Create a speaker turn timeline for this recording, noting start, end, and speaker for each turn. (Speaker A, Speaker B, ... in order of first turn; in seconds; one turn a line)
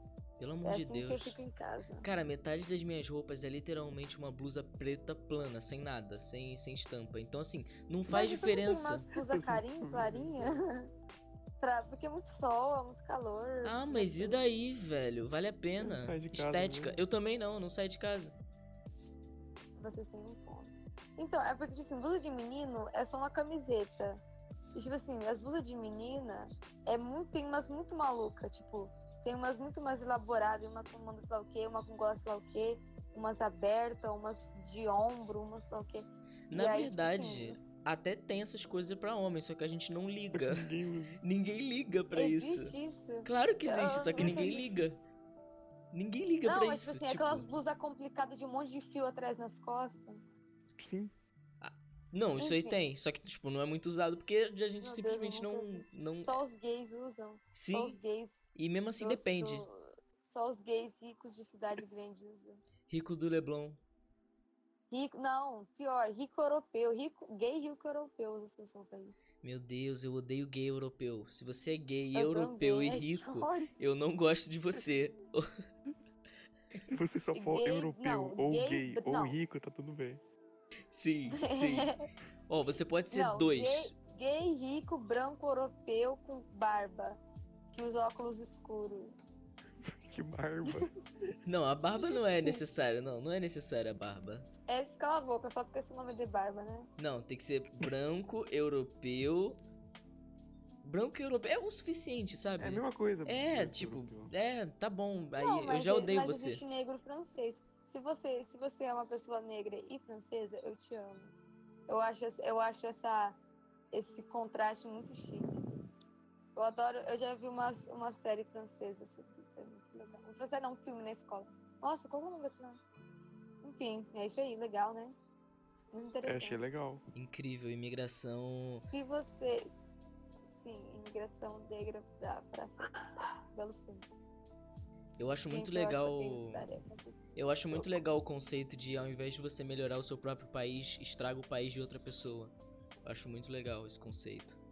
Speaker A: 0.4-1.4
Speaker B: 0.6-2.1
Speaker A: 2.0-9.1
Speaker B: 8.1-10.9
Speaker C: 9.2-10.6
Speaker B: 11.6-14.4
Speaker A: 13.6-18.4
Speaker C: 15.8-17.0
Speaker B: 19.8-24.2
Speaker B: 24.8-37.6
Speaker A: 36.5-40.7
Speaker C: 40.3-41.2
Speaker A: 41.2-45.0
Speaker B: 42.1-44.7
Speaker C: 44.2-44.7
Speaker A: 45.9-47.5
Speaker B: 46.4-50.2
Speaker C: 50.8-51.1
Speaker A: 51.6-56.4
Speaker B: 52.4-52.8
Speaker B: 54.8-58.5
Speaker A: 57.5-58.0
Speaker A: 58.5-59.6
Speaker B: 59.0-62.6
Speaker A: 62.9-63.8
Speaker B: 64.9-69.2
Speaker A: 69.4-75.5
Speaker B: 72.1-73.7
Speaker C: 76.9-80.2
Speaker B: 77.3-79.4
Speaker A: 80.9-81.9
Speaker B: 81.3-82.0
Speaker A: 82.5-83.9
Speaker B: 83.1-87.2
Speaker B: 87.7-89.1
Speaker C: 89.8-90.9
Speaker A: 91.4-94.5
Speaker B: 92.0-92.6
Speaker B: 94.7-96.9
Speaker A: 97.0-99.6
Speaker A: 100.8-106.6
Speaker C: 102.6-104.3
Speaker B: 105.4-111.3
Speaker B: 111.9-113.4
Speaker B: 113.9-115.5
Speaker B: 116.5-122.8
Speaker B: 123.6-125.1
Speaker B: 125.9-126.7
Speaker C: 126.2-127.0
Speaker A: 127.1-128.9
Speaker B: 128.9-134.1
Speaker A: 135.2-136.7
Speaker B: 135.5-137.2
Speaker A: 137.3-142.5
Speaker A: 143.0-144.6